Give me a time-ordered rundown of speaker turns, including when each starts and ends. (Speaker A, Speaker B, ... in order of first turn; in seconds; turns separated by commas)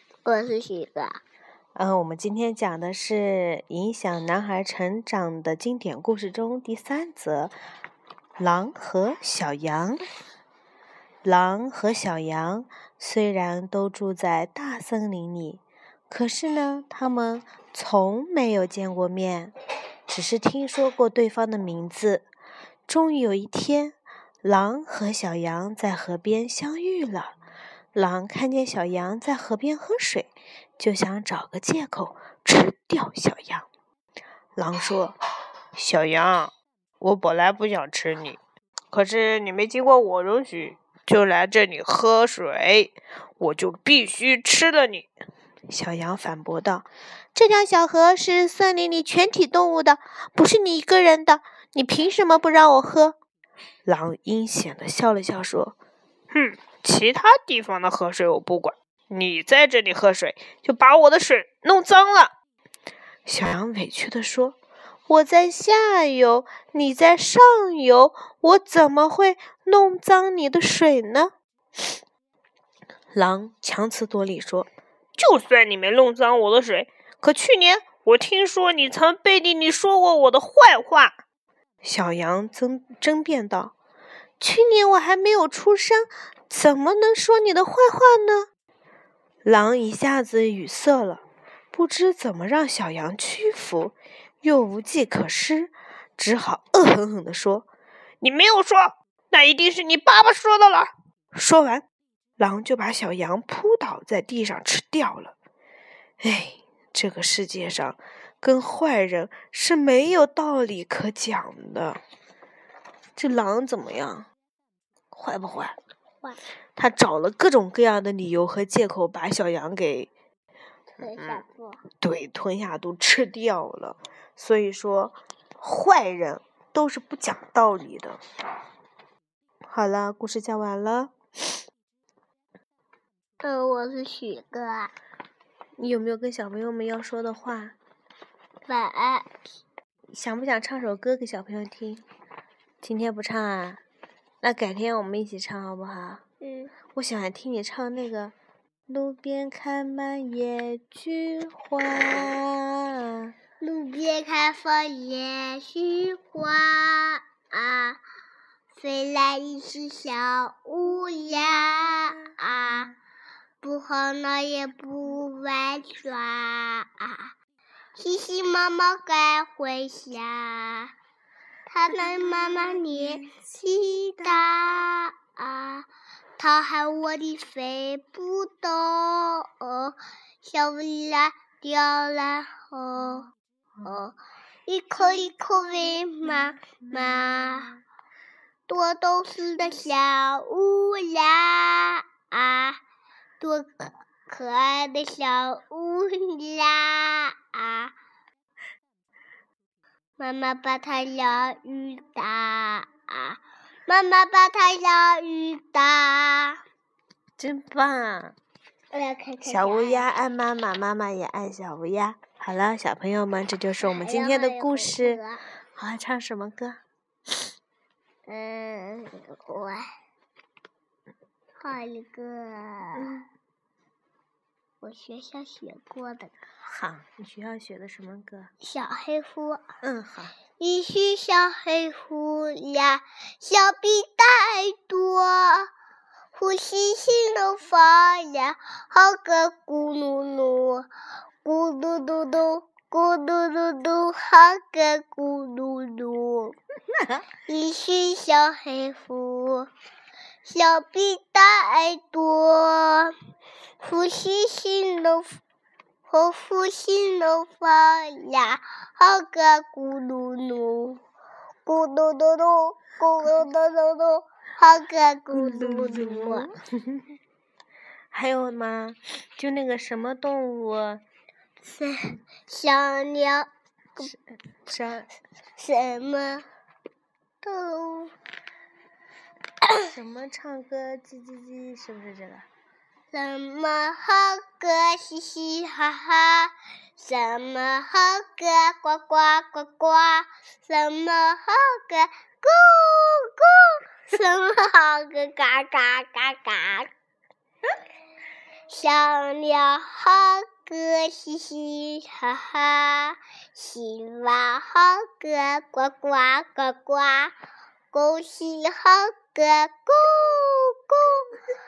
Speaker A: 0.2-1.2, Speaker B: 1.7-7.5, Speaker B: 8.4-10.0, Speaker B: 11.2-19.5, Speaker B: 20.1-22.2, Speaker B: 22.9-27.3, Speaker B: 27.9-33.7, Speaker B: 34.5-35.1, Speaker B: 35.8-38.4, Speaker B: 38.9-45.1, Speaker B: 45.7-53.2, Speaker B: 53.8-55.8, Speaker B: 56.3-62.3, Speaker B: 63.2-64.6, Speaker B: 65.1-71.3, Speaker B: 73.1-81.2, Speaker B: 81.8-83.7, Speaker B: 84.4-88.5, Speaker B: 89.4-97.7, Speaker B: 98.2-101.8, Speaker B: 102.4-105.3, Speaker B: 106.2-112.0, Speaker B: 113.2-114.3, Speaker B: 115.1-115.8, Speaker B: 116.8-120.1, Speaker A: 121.0-121.8, Speaker B: 121.2-121.4, Speaker B: 122.0-128.2, Speaker B: 129.7-131.1, Speaker A: 133.4-134.9, Speaker B: 135.8-137.7, Speaker A: 138.7-139.3, Speaker B: 140.1-142.0, Speaker B: 142.8-143.8, Speaker B: 144.4-146.2, Speaker A: 146.4-146.7, Speaker B: 146.9-148.3, Speaker B: 148.9-153.3, Speaker A: 153.6-158.0, Speaker A: 158.8-162.9, Speaker A: 163.6-167.3, Speaker A: 167.9-170.9, Speaker A: 171.7-183.3, Speaker B: 172.3-172.7, Speaker A: 183.8-187.7, Speaker B: 186.7-187.8, Speaker A: 188.7-192.8, Speaker A: 193.4-197.9, Speaker A: 200.2-206.6, Speaker B: 207.4-208.3, Speaker A: 208.9-210.1, Speaker B: 209.4-215.2, Speaker A: 213.8-215.4, Speaker B: 215.7-216.8, Speaker A: 218.3-219.9, Speaker A: 221.6-223.1, Speaker B: 223.0-223.3, Speaker A: 224.8-226.3, Speaker B: 226.7-228.5, Speaker A: 228.6-229.6, Speaker B: 229.8-230.3, Speaker A: 230.6-235.7, Speaker A: 236.3-240.9, Speaker A: 241.4-246.6, Speaker A: 247.4-249.7, Speaker A: 250.4-253.1, Speaker A: 253.8-255.4, Speaker A: 256.1-261.0, Speaker A: 261.6-266.5, Speaker B: 265.3-267.0, Speaker B: 268.1-271.0, Speaker A: 271.6-274.1, Speaker B: 274.1-275.1, Speaker A: 275.6-276.5, Speaker A: 277.4-278.1, Speaker B: 279.9-282.4, Speaker A: 283.1-296.9, Speaker A: 298.7-307.4, Speaker A: 307.9-311.4